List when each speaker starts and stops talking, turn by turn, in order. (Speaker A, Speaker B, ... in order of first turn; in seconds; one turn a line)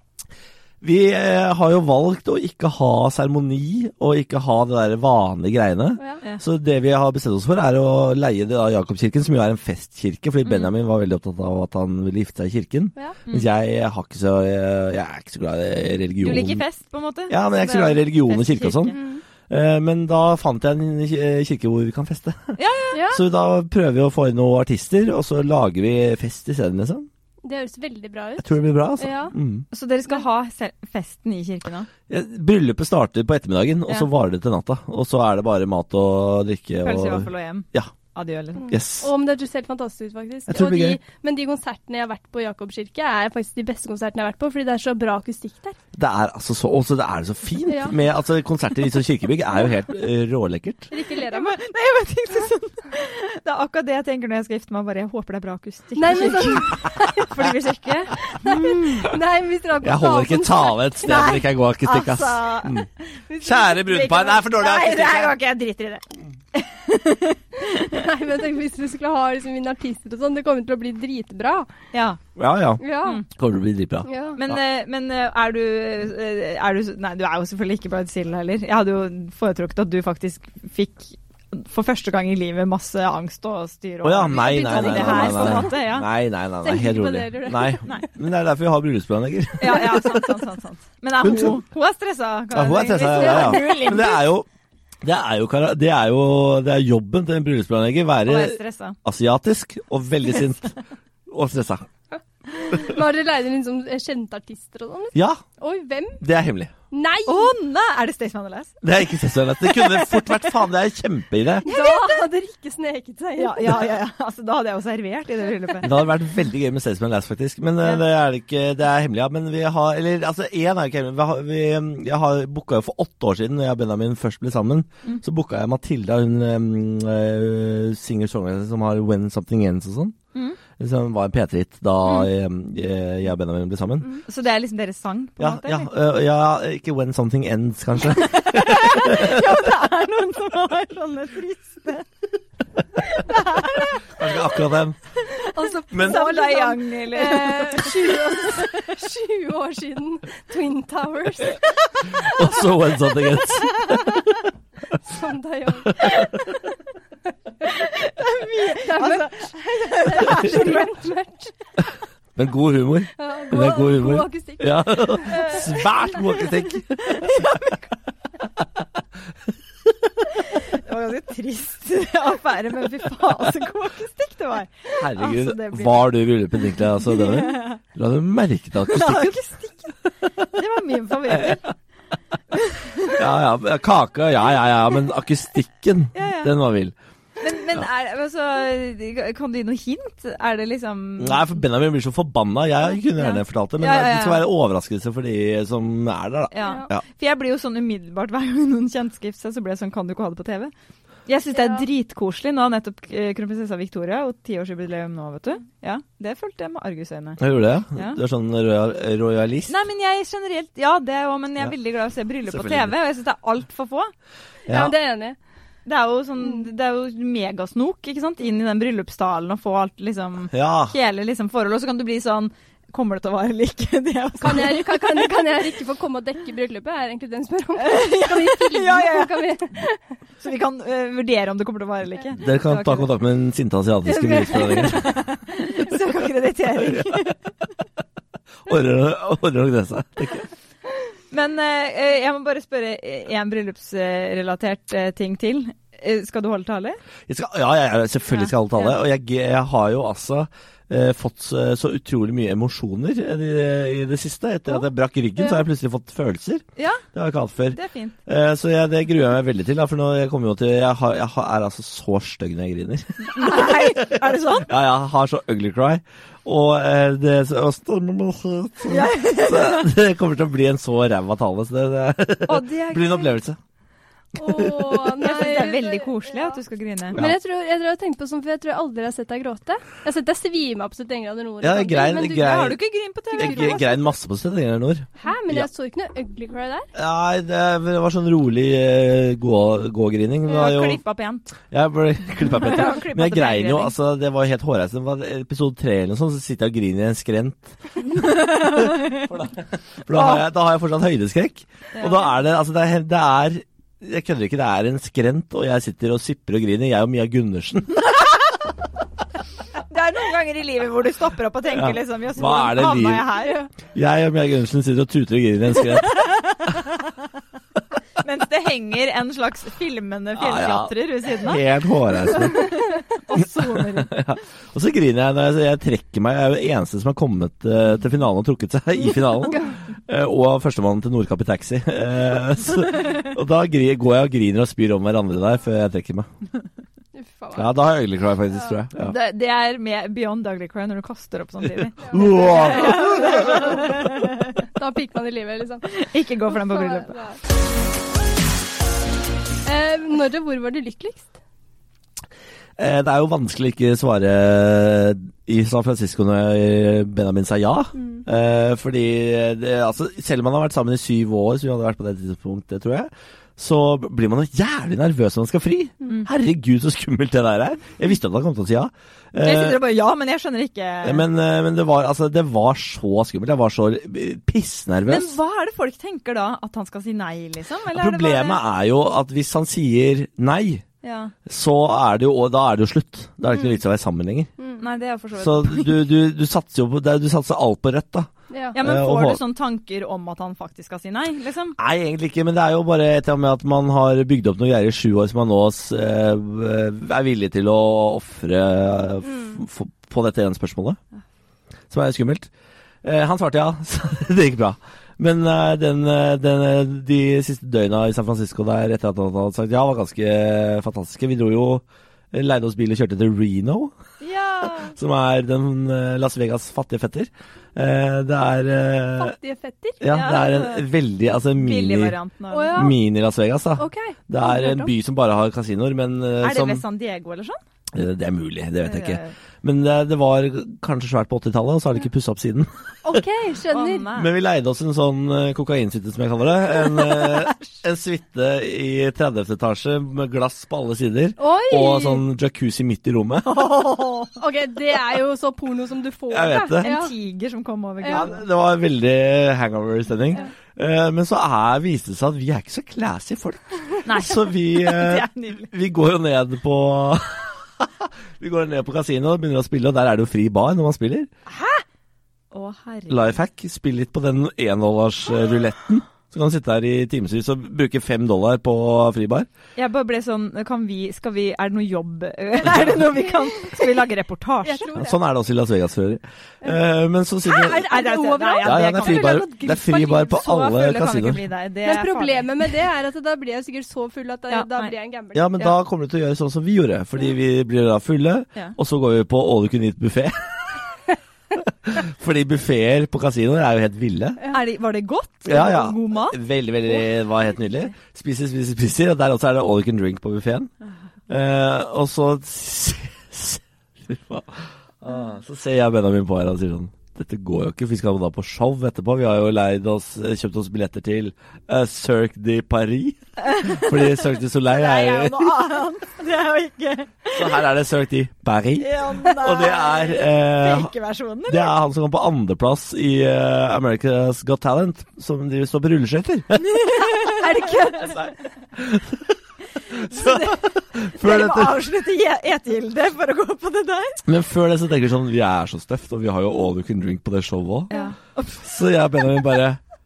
Speaker A: 0.8-16.6
Speaker B: 16.2-19.0
Speaker A: 17.3-18.9
Speaker C: 18.9-19.2
Speaker A: 19.5-22.6
Speaker B: 22.6-23.1
Speaker C: 22.9-23.2
Speaker A: 23.1-27.1
Speaker C: 27.4-29.3
Speaker A: 28.4-29.6
Speaker B: 29.7-31.9
Speaker A: 32.1-37.9
Speaker B: 36.8-38.7
Speaker C: 38.6-45.8
Speaker A: 38.7-39.1
Speaker A: 40.5-41.0
Speaker A: 45.9-50.9
Speaker C: 47.7-47.9
Speaker C: 50.9-51.6
Speaker B: 51.2-59.0
Speaker C: 56.0-61.4
Speaker A: 59.8-62.9
Speaker B: 61.0-62.9
Speaker C: 63.3-64.1
Speaker A: 63.4-65.4
Speaker B: 63.8-68.0
Speaker C: 67.8-71.7
Speaker B: 71.9-72.2
Speaker A: 72.4-74.6
Speaker C: 72.8-73.2
Speaker C: 74.0-74.4
Speaker B: 74.4-86.1
Speaker A: 84.0-90.2
Speaker C: 84.3-85.8
Speaker C: 86.6-87.9
Speaker B: 89.6-94.2
Speaker A: 91.2-91.6
Speaker A: 92.5-94.5
Speaker C: 93.1-94.1
Speaker A: 95.0-100.8
Speaker B: 98.2-99.0
Speaker A: 101.3-101.9
Speaker C: 102.6-106.2
Speaker A: 105.1-105.4
Speaker A: 106.2-106.7
Speaker C: 106.9-107.5
Speaker B: 107.3-108.8
Speaker A: 108.8-111.7
Speaker B: 109.6-110.4
Speaker B: 111.6-112.2
Speaker C: 111.6-113.9
Speaker B: 113.4-115.9
Speaker A: 115.8-130.1
Speaker B: 130.3-130.6
Speaker A: 130.8-134.2
Speaker B: 134.3-135.9
Speaker A: 135.4-139.6
Speaker B: 138.1-142.1
Speaker B: 143.1-143.9
Speaker A: 144.0-145.0
Speaker C: 145.3-152.4
Speaker B: 145.4-148.9
Speaker A: 145.9-146.2
Speaker A: 152.1-154.2
Speaker C: 155.0-156.4
Speaker A: 155.8-156.5
Speaker B: 157.6-160.9
Speaker C: 158.7-161.5
Speaker A: 162.3-167.5
Speaker C: 163.2-165.8
Speaker B: 165.3-165.6
Speaker B: 166.9-167.9
Speaker B: 170.4-176.1
Speaker A: 175.0-179.4
Speaker B: 177.0-177.8
Speaker B: 178.8-181.7
Speaker A: 181.3-181.6
Speaker B: 182.5-183.2
Speaker A: 183.1-186.9
Speaker B: 186.1-186.5
Speaker B: 187.4-191.5
Speaker A: 191.2-197.0
Speaker B: 193.2-194.5
Speaker B: 196.5-200.7
Speaker B: 201.3-207.4
Speaker C: 201.5-201.8
Speaker A: 207.4-209.7
Speaker B: 207.9-208.2
Speaker B: 209.7-214.1
Speaker A: 212.5-212.9
Speaker A: 214.7-214.9
Speaker C: 214.7-215.4
Speaker B: 215.8-225.3
Speaker A: 220.5-220.9
Speaker C: 224.4-230.0
Speaker B: 227.8-229.5
Speaker B: 230.4-233.1
Speaker A: 232.3-235.1
Speaker C: 234.1-235.0
Speaker B: 234.1-237.4
Speaker A: 236.8-237.2
Speaker A: 238.7-240.5
Speaker B: 241.3-247.0
Speaker A: 247.3-273.6
Speaker B: 248.3-249.0
Speaker B: 256.8-257.0
Speaker B: 257.7-258.2
Speaker B: 263.3-264.7
Speaker B: 268.9-269.9
Speaker B: 272.5-273.4
Speaker C: 274.3-276.6
Speaker A: 274.5-275.0
Speaker B: 275.2-277.2
Speaker C: 277.1-282.7
Speaker A: 281.6-282.8
Speaker B: 282.3-283.8
Speaker C: 283.3-284.0
Speaker A: 283.4-285.7
Speaker C: 285.2-286.9
Speaker A: 286.9-291.0
Speaker B: 290.5-291.5
Speaker A: 291.7-308.1
Speaker B: 292.5-293.9
Speaker B: 298.1-299.3
Speaker B: 300.1-300.4
Speaker B: 301.9-302.2
Speaker B: 309.9-313.6
Speaker A: 311.7-313.3
Speaker A: 313.9-316.4
Speaker B: 316.2-316.9
Speaker B: 318.2-321.6
Speaker A: 320.4-322.7
Speaker B: 322.3-324.1
Speaker A: 323.8-336.3
Speaker C: 337.1-337.7
Speaker A: 337.5-339.1
Speaker B: 339.0-344.4
Speaker A: 342.0-343.8
Speaker C: 342.1-344.1
Speaker C: 344.6-345.9
Speaker B: 345.9-347.1
Speaker C: 346.4-347.4
Speaker C: 349.6-351.3
Speaker A: 352.8-369.8
Speaker C: 357.9-358.2
Speaker B: 369.4-371.2
Speaker A: 371.0-375.4
Speaker B: 375.1-378.6
Speaker A: 377.9-380.8
Speaker B: 381.0-381.3
Speaker A: 381.4-384.5
Speaker C: 384.6-384.8
Speaker B: 384.8-386.0
Speaker A: 385.4-389.4
Speaker C: 388.5-388.8
Speaker B: 388.7-391.8
Speaker A: 391.8-401.0
Speaker C: 399.2-399.6
Speaker A: 401.9-402.5
Speaker A: 403.0-413.9
Speaker B: 414.2-414.9
Speaker A: 414.9-419.3
Speaker C: 419.2-420.2
Speaker A: 420.0-422.1
Speaker B: 420.1-420.9
Speaker B: 421.5-422.9
Speaker C: 422.5-422.9
Speaker A: 422.7-426.8
Speaker C: 423.8-424.9
Speaker B: 426.4-427.6
Speaker A: 427.9-433.2
Speaker B: 428.8-429.3
Speaker C: 433.0-434.1
Speaker B: 433.7-434.3
Speaker A: 434.1-443.7
Speaker B: 437.1-437.6
Speaker C: 441.4-442.2
Speaker B: 443.4-444.3
Speaker C: 444.4-447.1
Speaker A: 446.3-446.9
Speaker B: 446.8-448.4
Speaker C: 448.0-448.3
Speaker A: 448.1-461.3
Speaker B: 454.0-455.7
Speaker B: 461.6-461.8
Speaker B: 462.5-463.4
Speaker A: 463.1-469.5
Speaker B: 469.8-474.9
Speaker C: 473.1-473.9
Speaker C: 474.6-475.2
Speaker A: 474.9-477.9
Speaker C: 477.4-480.4
Speaker B: 477.8-479.4
Speaker A: 478.6-481.4
Speaker B: 480.3-482.5
Speaker C: 481.8-485.6
Speaker B: 484.5-484.9
Speaker A: 485.3-490.8
Speaker A: 491.7-494.4
Speaker B: 494.5-497.1
Speaker A: 495.4-500.7
Speaker A: 501.3-515.6
Speaker B: 513.4-517.6
Speaker A: 517.3-520.9
Speaker B: 518.8-521.8
Speaker A: 521.5-527.1
Speaker B: 526.7-528.2
Speaker C: 527.2-528.2
Speaker A: 528.1-529.3
Speaker B: 529.9-534.2
Speaker A: 529.9-531.8
Speaker A: 534.2-537.9
Speaker B: 537.9-538.6
Speaker A: 538.6-539.8